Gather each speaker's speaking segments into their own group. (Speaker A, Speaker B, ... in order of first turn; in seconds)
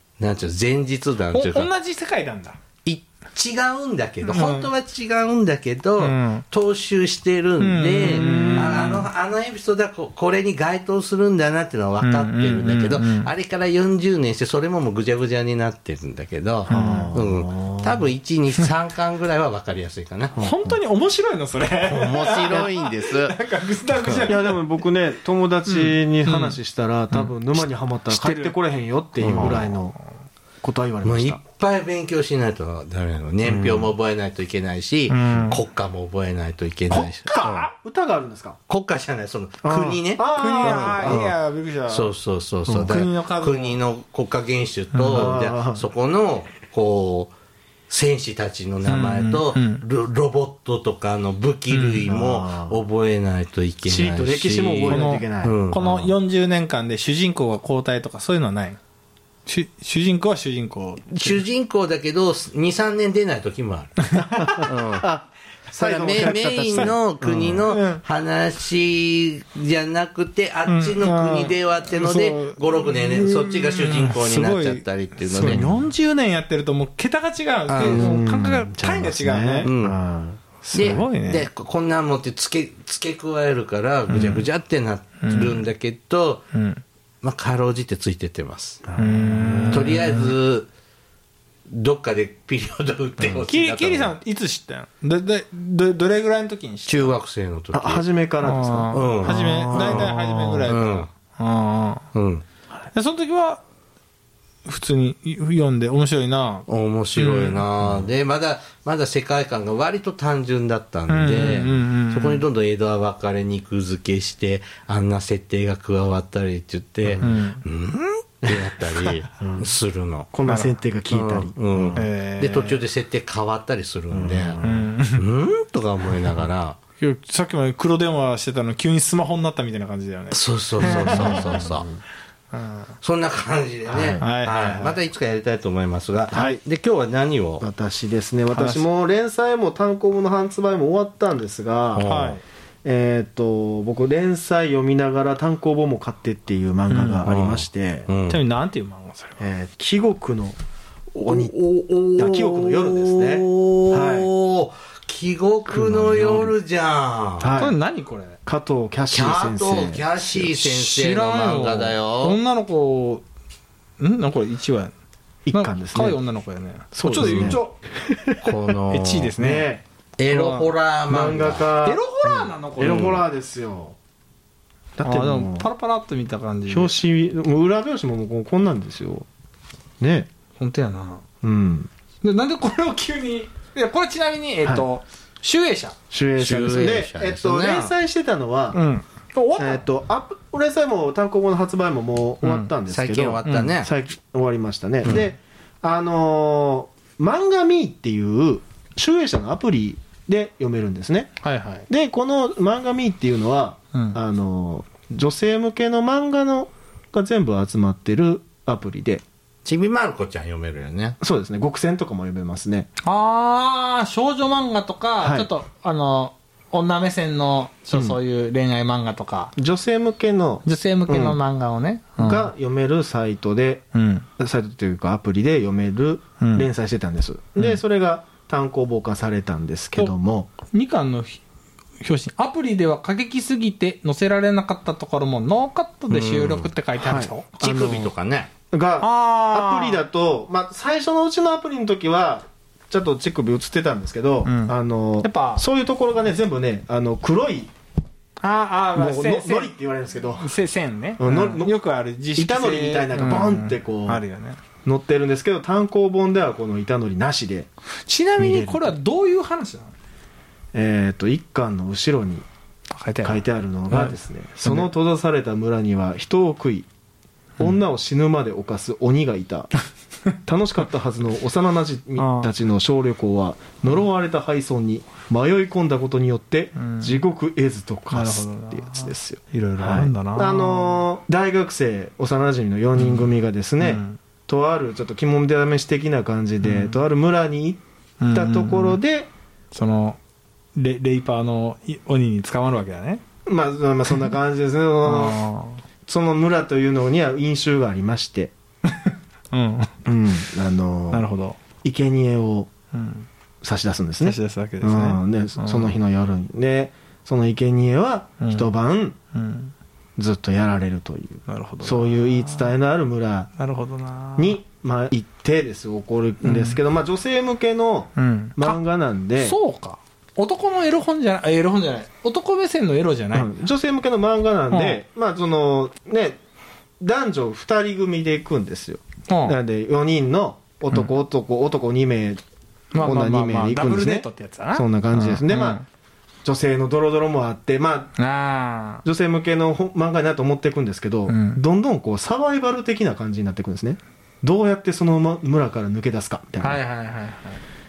Speaker A: 0.2-1.7, 2.8-20.4, 21.8-23.4, 29.2-29.7, 31.0-37.7, 38.7-41.3, 41.9-47.3, 47.9-56.1, 61.1-65.1, 65.8-75.7, 77.7-78.1, 79.6-80.0, 80.7-86.5, 87.2-88.8, 89.7-90.7, 91.7-94.1, 96.9-98.0, 98.9-101.1, 102.1-102.4, 106.7-120.3, 121.1-124.6, 125.1-126.8, 130.3-131.9, 133.0-137.7, 141.9-142.4, 147.2-148.4, 151.2-157.5, 159.1-162.4, 167.2-167.6, 168.4-169.3, 170.2-171.7, 172.8-173.2, 186.4-187.9, 192.9-193.9, 209.6-211.2, 236.1-236.7, 237.6-238.5
Speaker B: 1.3-2.6, 4.2-4.7, 6.0-6.4, 7.6-9.1, 12.0-13.3, 16.7-17.1, 20.4-24.6, 25.6-26.6, 27.1-28.5, 29.3-29.7, 35.1-35.6, 36.9-37.7, 40.3-42.1, 42.8-43.8, 44.9-45.3, 48.9-49.8, 51.7-52.0, 54.9-58.8, 59.5-61.4, 64.1-64.7, 66.2-66.9, 67.6-68.0, 70.7-79.7, 80.6-81.5, 84.1-84.4, 85.2-85.6, 86.5-86.8, 89.0-90.3, 93.4-97.1, 98.4-102.1, 102.9-103.6, 104.7-107.6, 111.1-112.4, 117.2-117.6, 120.5-120.7, 122.0-122.8, 124.6-125.2, 127.0-131.7, 132.5-132.9, 134.2-134.9, 138.5-138.8, 142.0-142.4, 146.9-147.3, 148.3-149.4, 157.6-158.4, 160.7-163.2, 164.0-164.9, 165.5-167.8, 168.9-169.7, 170.3-170.7, 171.8-173.2, 175.0-176.9, 180.6-181.2, 182.2-186.0, 188.7-189.8, 192.4-192.7, 193.4-193.7, 201.4-201.9, 203.9-204.2, 213.0-219.5, 220.6-222.5, 223.9-224.2, 226.4-226.7, 230.7-231.4, 232.0-237.7, 239.0-240.0, 244.4-245.6, 248.4-249.7, 250.4-254.6, 258.1-259.9, 262.9-264.9, 272.2-272.5, 276.8-277.2, 278.1-281.0, 282.9-284.2, 286.6-287.0, 288.2-289.0, 289.7-290.2, 290.8-293.2, 295.0-295.8, 299.0-299.9, 301.1-301.6, 302.9-303.3, 304.2-305.9, 308.4-308.7, 309.3-309.7, 311.5-312.7, 313.6-314.6, 316.4-316.8, 318.1-318.8, 319.4-323.5, 324.7-325.0, 329.3-329.6, 332.9-335.8, 338.2-339.0, 341.3-341.6, 346.6-347.6
Speaker C: 8.2-8.9, 16.7-18.1, 20.4-20.8, 24.2-29.9, 30.6-31.4, 33.4-33.9, 37.6-38.6, 39.6-41.2, 42.7-42.9, 45.1-45.8, 52.0-52.8, 53.8-55.5, 64.2-67.6, 75.3-75.8, 77.8-80.4, 88.8-90.0, 97.7-100.7, 117.0-117.3, 119.4-119.7, 120.3-122.0, 124.1-124.9, 130.8-131.9, 133.9-134.3, 136.3-136.6, 137.6-142.1, 142.8-148.1, 149.4-150.6, 151.1-151.5, 152.1-154.3, 155.7-156.6, 157.4-157.8, 158.4-160.7, 165.4-166.2, 166.9-168.6, 169.4-169.8, 171.1-174.0, 175.0-175.7, 176.7-179.3, 180.0-180.3, 181.4-181.9, 186.1-188.8, 189.6-201.3, 201.9-209.2, 211.2-212.9, 215.2-215.5, 217.9-218.2, 219.6-221.4, 222.2-223.8, 224.4-230.5, 237.0-238.1, 238.7-247.7, 248.9-250.5, 251.2-251.7, 252.3-254.2, 254.8-257.7, 258.4-258.9, 260.7-262.4, 263.2-266.9, 267.6-269.7, 270.4-287.8, 288.3-289.3, 293.4-295.4, 296.1-298.5, 300.1-301.2, 301.8-302.7, 303.6-309.2, 310.2-313.5, 314.4-319.6, 323.3-326.4, 327.0-332.4, 333.0-335.8, 336.4-338.1, 339.0-346.8